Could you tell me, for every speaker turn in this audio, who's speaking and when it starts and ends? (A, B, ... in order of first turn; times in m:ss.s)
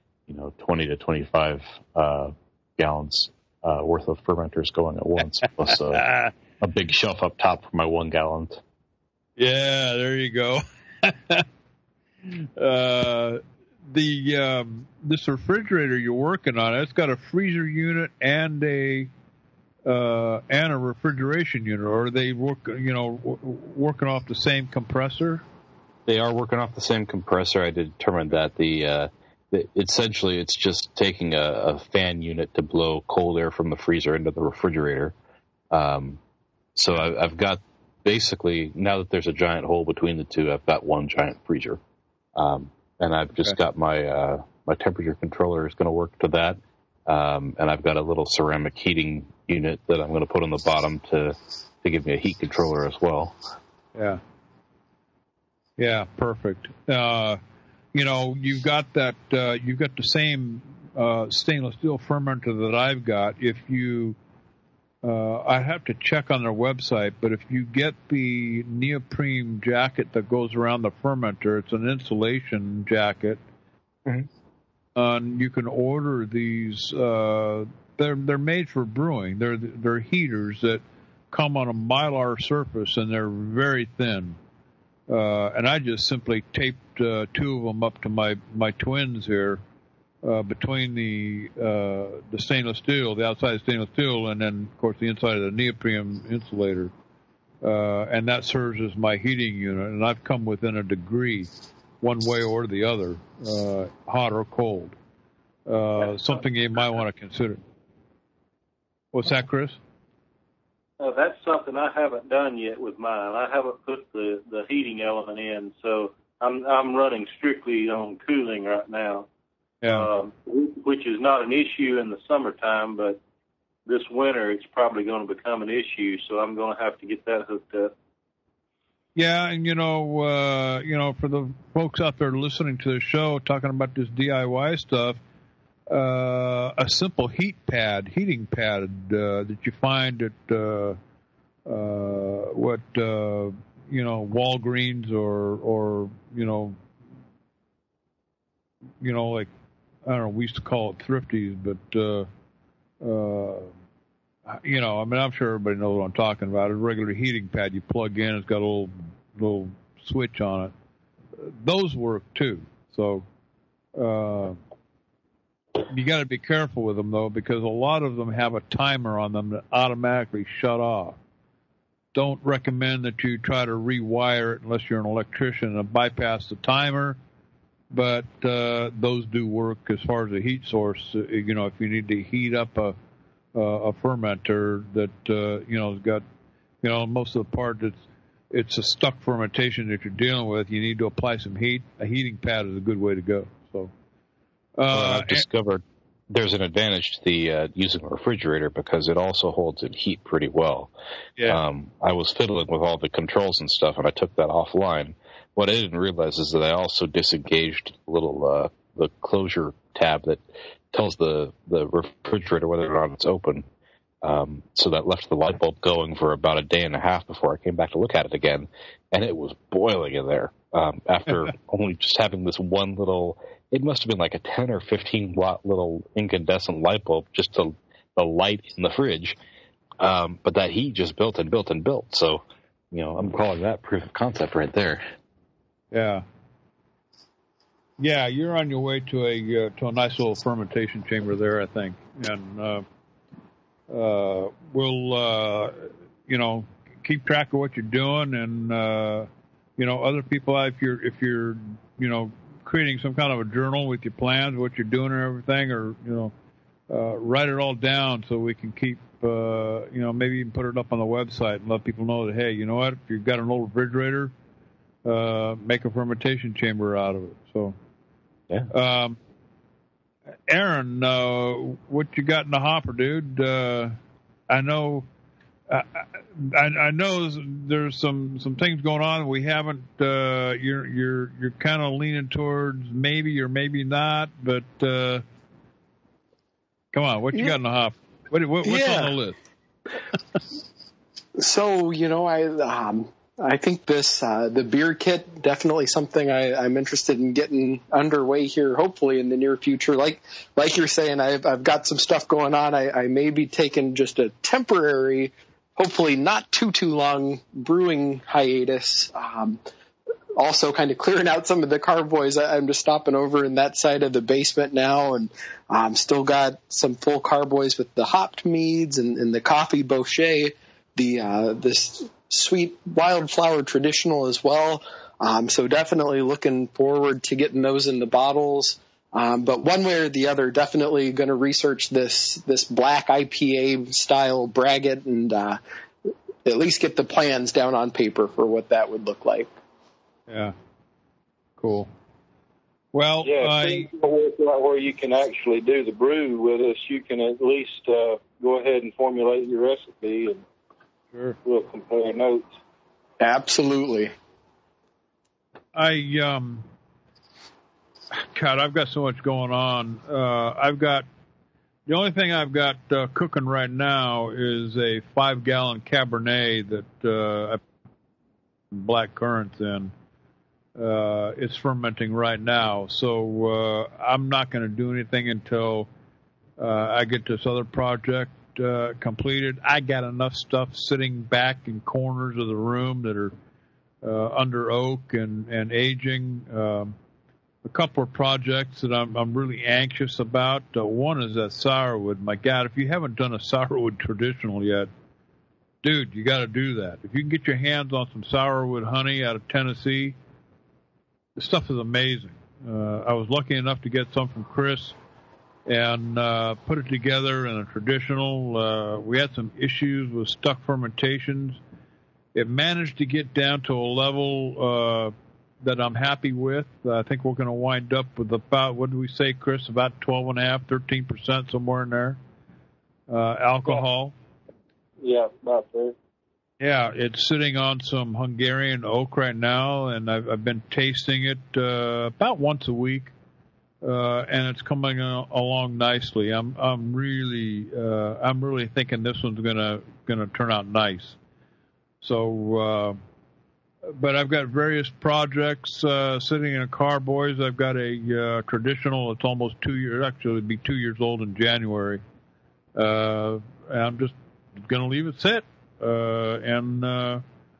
0:00.3-0:06.1 A
0:05.7-0:06.3 B
0:06.6-0:08.6 A
0:09.4-0:11.4 B
0:12.3-0:19.1 B
0:19.8-0:25.4 B
0:26.0-0:35.1 A
0:35.7-0:36.2 A
0:36.8-0:41.8 A
0:42.4-0:53.4 A
0:53.9-0:54.2 B
0:55.8-0:57.4 B
0:57.9-1:04.2 B
1:05.0-1:13.4 B
1:15.0-1:24.4 B
1:25.1-1:29.6 B
1:30.2-1:36.9 B
1:37.6-1:41.5 B
1:42.0-1:45.0 B
1:45.7-1:47.6 B
1:49.1-1:49.8 B
1:51.0-1:59.3 C
1:59.8-2:00.1 B
1:59.8-2:03.2 C
2:03.8-2:07.9 C
2:09.2-2:15.2 B
2:15.9-2:21.0 B
2:21.6-2:26.8 B
2:29.0-2:29.5 B
2:30.0-2:32.3 B
2:33.0-2:33.7 B
2:34.5-2:40.7 B
2:41.4-2:43.2 B
2:44.0-2:44.6 B
2:45.9-2:51.2 B
2:52.1-2:57.2 B
2:57.9-3:02.9 B
3:03.5-3:06.2 B
3:06.8-3:13.9 B
3:14.8-3:15.4 B
3:14.9-3:20.9 A
3:21.4-3:21.6 B
3:21.5-3:33.6 A
3:34.2-3:49.4 A
3:50.0-3:55.0 A
3:55.9-3:56.2 B
3:58.0-4:02.8 B
4:03.9-4:16.3 B
4:16.9-4:24.3 B
4:25.0-4:27.8 B
4:28.7-4:29.2 B
4:30.5-4:34.0 B
4:34.5-4:35.0 B
4:35.7-4:45.2 B
4:46.9-4:49.4 B
4:48.6-4:49.2 D
4:51.4-5:09.6 D
5:10.4-5:35.6 D
5:36.4-5:39.5 D
5:40.3-5:40.5 B
5:41.6-5:41.9 B
5:42.9-5:43.9 B
5:43.2-5:50.4 C
5:51.4-5:52.5 C
5:53.2-5:54.1 D
5:55.7-5:56.6 B
5:58.2-6:01.0 B
6:01.9-6:07.6 B
6:08.7-6:09.9 B
6:10.8-6:15.9 B
6:16.6-6:23.3 B
6:24.0-6:26.9 B
6:27.6-6:34.9 B
6:35.8-6:40.2 B
6:41.4-6:45.0 B
6:45.6-6:51.6 B
6:52.3-7:02.2 B
7:03.1-7:04.1 B
7:05.0-7:05.9 C
7:06.6-7:13.1 B
7:13.8-7:21.2 B
7:22.0-7:23.0 B
7:23.8-7:32.0 B
7:32.7-7:37.2 B